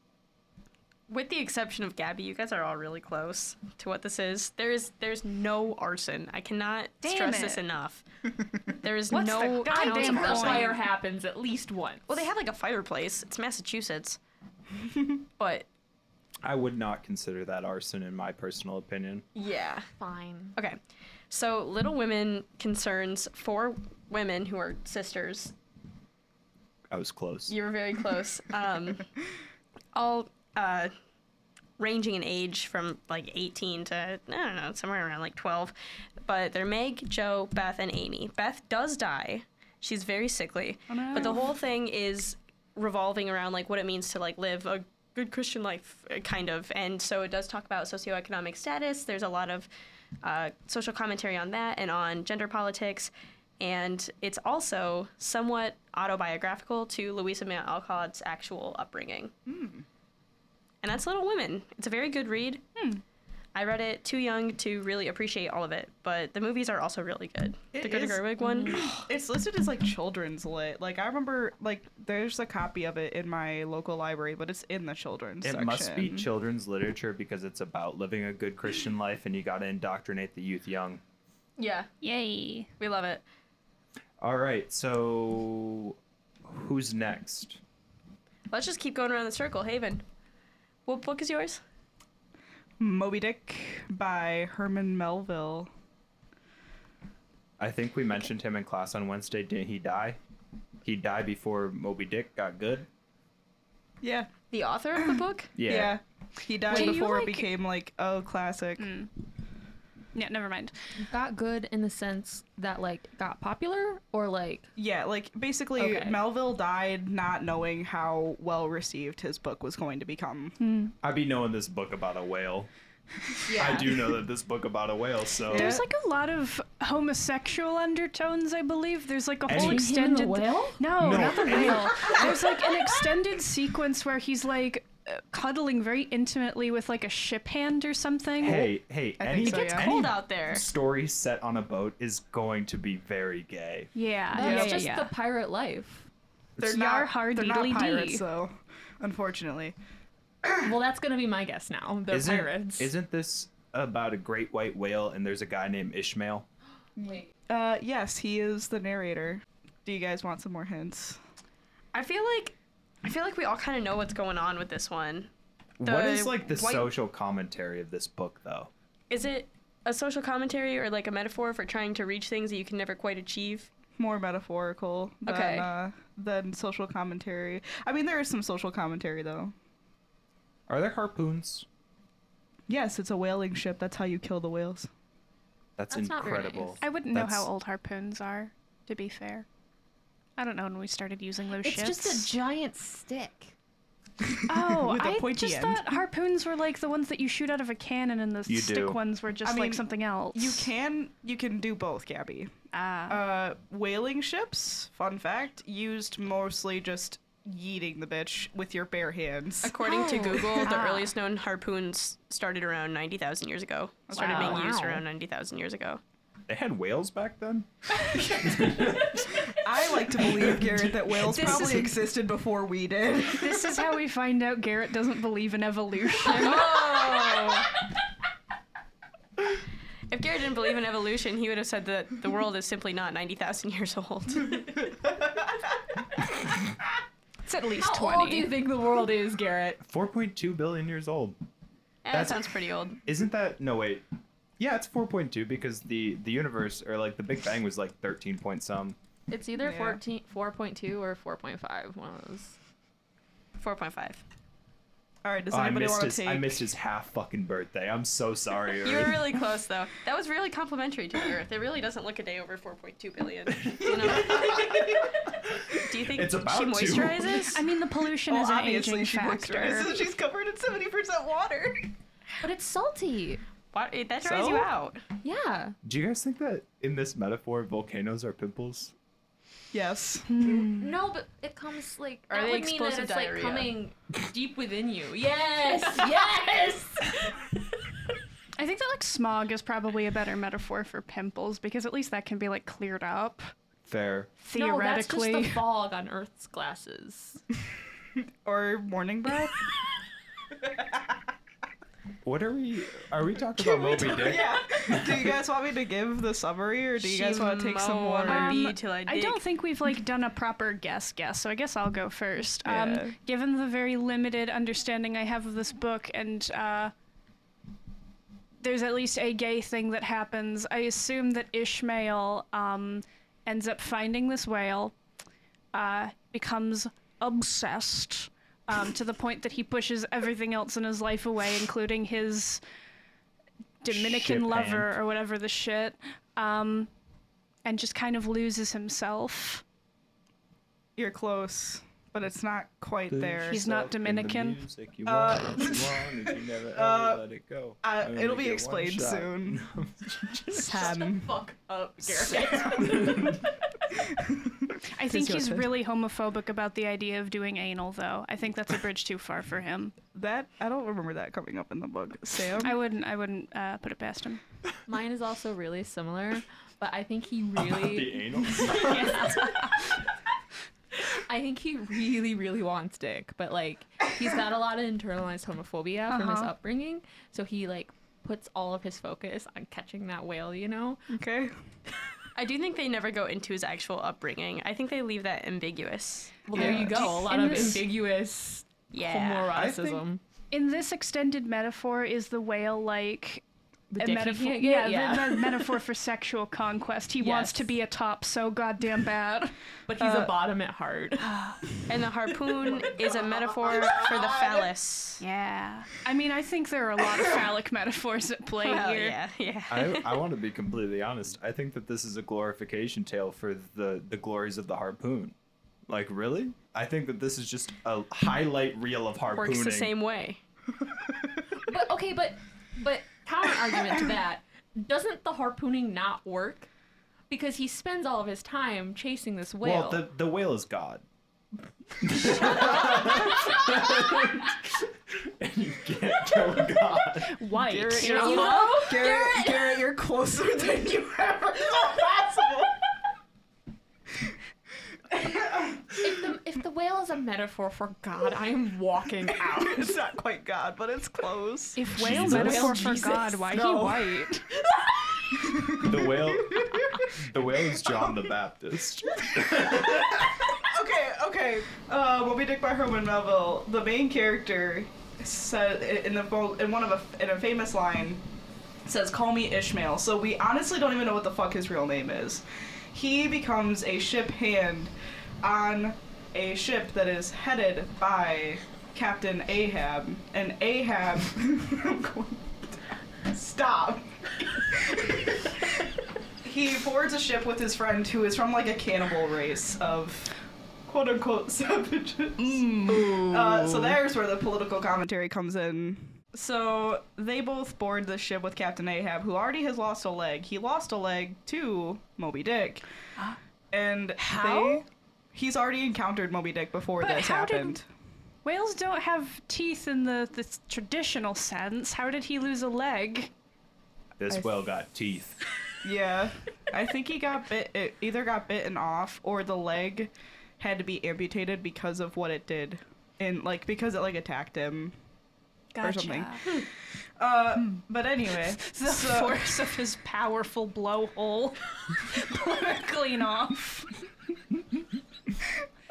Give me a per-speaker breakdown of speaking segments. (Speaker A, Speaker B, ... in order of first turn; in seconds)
Speaker A: 1.1-8.0, 8.7-10.8, 12.1-14.2, 15.4-15.7, 19.4-19.9, 21.3-25.5, 27.5-29.1, 29.9-30.9, 31.8-49.7, 50.2-59.3, 60.8-62.6, 63.5-68.8, 81.6-81.9, 82.8-83.2, 88.5-90.0, 90.9-91.6, 104.5-105.5, 139.5-140.7, 161.9-165.3, 165.8-166.9, 169.1-173.7, 175.2-175.7, 209.6-216.0, 226.4-227.7, 230.1-234.9, 242.1-243.0, 253.6-254.2, 258.8-265.2, 265.7-267.6, 273.7-275.0, 282.3-283.7, 307.0-309.4, 382.4-386.5, 388.9-389.5, 401.9-405.2, 408.6-410.2, 419.3-420.4, 438.2-438.8
Speaker B: 7.0-7.6, 9.1-10.8, 62.8-63.0, 82.0-82.7, 106.7-107.5, 108.8-109.1, 110.2-110.7, 120.6-120.9, 125.5-138.7, 143.9-145.2, 146.6-148.2, 186.8-189.5, 190.4-192.3, 194.5-200.7, 202.7-203.2, 210.6-211.1, 221.3-221.9, 223.3-226.6, 237.4-238.5, 267.4-269.9, 280.3-280.9, 288.6-293.5, 294.4-295.6, 308.3-316.9, 318.6-324.9, 325.7-332.6, 333.8-336.9, 337.6-339.6, 343.5-344.6, 354.9-359.9, 362.6-364.4, 368.6-370.0, 376.1-376.5, 386.5-387.9, 390.5-393.4, 394.0-399.5, 401.2-401.6, 405.2-409.2, 437.2-438.6, 451.8-454.5, 492.7-493.0, 504.2-504.8, 507.0-507.8, 508.4-513.3, 525.7-526.5, 528.6-533.9
Speaker C: 9.7-12.2, 20.0-20.6, 106.7-107.1, 111.0-114.7, 115.8-116.2, 123.5-124.0, 129.5-131.7, 144.3-146.1, 150.6-152.9, 157.0-157.3, 185.9-186.8, 191.6-193.5, 209.8-210.8, 214.1-215.0, 221.4-221.8, 226.2-227.9, 237.8-239.8, 249.3-252.6, 272.4-273.4, 275.2-275.8, 280.5-287.3, 294.5-297.4, 350.6-353.4, 364.9-369.4, 371.0-381.0, 386.5-390.2, 393.9-395.7, 397.2-397.7, 399.9-401.4, 421.6-426.7, 427.3-430.0, 432.3-434.0, 438.0-439.8, 446.0-450.0, 452.1-453.4, 492.9-494.0
Speaker D: 16.4-19.2, 26.9-27.6, 75.4-81.0, 84.2-87.6, 97.6-100.2, 100.8-102.9, 105.6-106.0, 121.0-122.7, 123.5-125.8, 129.5-129.9, 131.0-132.3, 138.4-143.9, 152.1-156.5, 165.8-168.7, 180.7-181.7, 185.8-187.5, 198.5-199.0, 216.5-217.7, 218.3-219.4, 220.4-220.9, 239.8-241.4, 242.1-242.5, 243.1-244.0, 244.6-249.0, 255.5-259.4, 263.6-267.5, 275.8-278.9, 293.9-294.3, 302.2-305.4, 333.9-334.9, 343.1-351.0, 352.9-353.4, 367.7-369.5, 389.5-390.0, 409.7-415.4, 415.9-419.9, 429.6-431.0, 432.0-437.4, 452.0-452.7, 455.8-460.5, 514.2-515.4
Speaker E: 40.9-41.5, 59.5-59.9, 67.7-76.3, 92.8-95.7, 104.0-104.3, 105.0-108.9, 114.8-120.6, 125.5-125.8, 139.2-140.0, 144.4-144.8, 146.6-149.8, 157.5-161.2, 174.0-179.5, 182.7-184.9, 194.3-196.0, 199.4-199.8, 200.3-202.5, 203.1-209.8, 214.1-214.7, 218.1-218.9, 219.5-223.8, 249.6-250.0, 255.2-256.6, 268.3-271.9, 274.2-274.7, 279.7-280.4, 298.4-299.8, 300.6-301.1, 303.6-308.7, 312.6-313.1, 341.0-343.6, 345.1-347.2, 347.8-349.6, 350.5-351.4, 352.2-353.4, 354.1-355.7, 360.1-362.8, 381.1-381.5, 386.6-387.1, 400.0-400.3, 402.6-404.7, 437.6-442.9, 445.1-445.9, 449.4-454.3, 455.3-458.3, 459.4-468.2, 468.9-485.7, 486.4-490.3, 490.9-502.9, 503.7-507.9, 515.8-525.0, 525.8-529.6